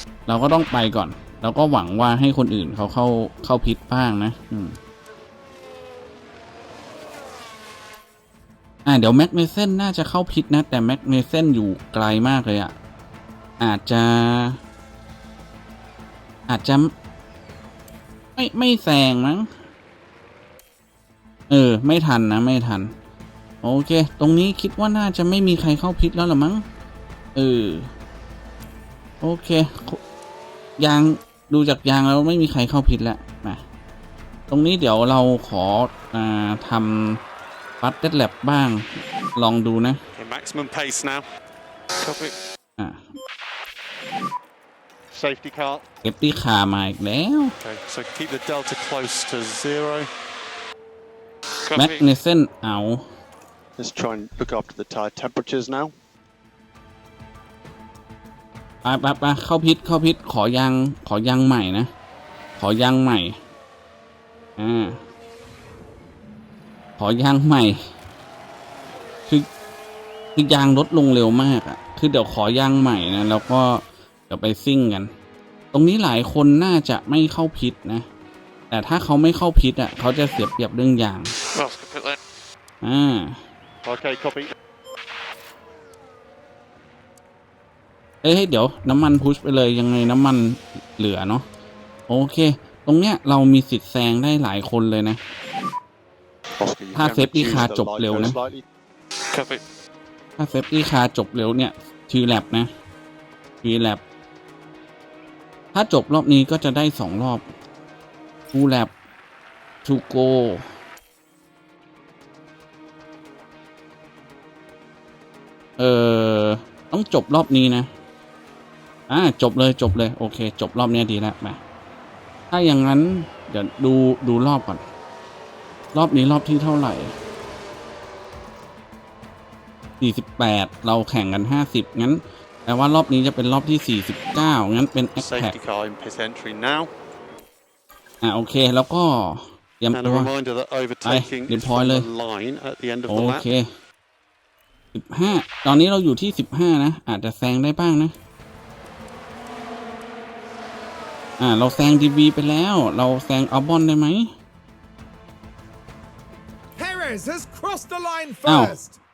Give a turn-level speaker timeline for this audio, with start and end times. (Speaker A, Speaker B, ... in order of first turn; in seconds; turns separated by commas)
Speaker A: 0.3-4.8, Speaker A: 8.8-12.7, Speaker A: 13.6-14.6, Speaker A: 16.5-16.9, Speaker A: 18.4-19.5, Speaker A: 21.5-22.9, Speaker A: 23.6-26.6, Speaker A: 27.3-27.9, Speaker A: 29.2-30.0, Speaker A: 30.8-33.6, Speaker A: 34.5-37.2, Speaker A: 37.8-40.0, Speaker B: 40.1-41.2, Speaker C: 42.0-42.4, Speaker A: 42.8-43.1, Speaker B: 45.1-45.8, Speaker A: 46.0-47.5, Speaker B: 47.6-50.1, Speaker C: 51.6-52.1, Speaker A: 51.8-53.0, Speaker B: 53.8-55.9, Speaker A: 58.8-61.9, Speaker A: 62.6-63.4, Speaker A: 64.6-65.0, Speaker A: 67.0-67.8, Speaker A: 70.3-75.1, Speaker A: 75.7-78.1, Speaker A: 78.7-81.3, Speaker C: 81.5-82.2, Speaker A: 82.8-83.4, Speaker B: 83.8-84.5, Speaker A: 88.2-91.5, Speaker A: 92.1-95.2, Speaker B: 96.6-98.6, Speaker A: 96.9-98.4, Speaker C: 99.3-99.6, Speaker A: 100.4-102.7, Speaker A: 103.6-104.0, Speaker A: 105.7-107.4, Speaker A: 108.5-108.9, Speaker A: 109.8-110.7, Speaker A: 115.8-117.9, Speaker A: 119.1-121.6, Speaker A: 122.5-124.8, Speaker A: 125.9-127.1, Speaker A: 130.0-135.6, Speaker B: 135.2-136.9, Speaker A: 138.2-140.3, Speaker B: 139.9-143.5, Speaker A: 141.0-142.1, Speaker A: 143.1-143.7, Speaker A: 144.9-148.1, Speaker A: 151.4-154.3, Speaker D: 156.8-159.0, Speaker A: 158.4-158.8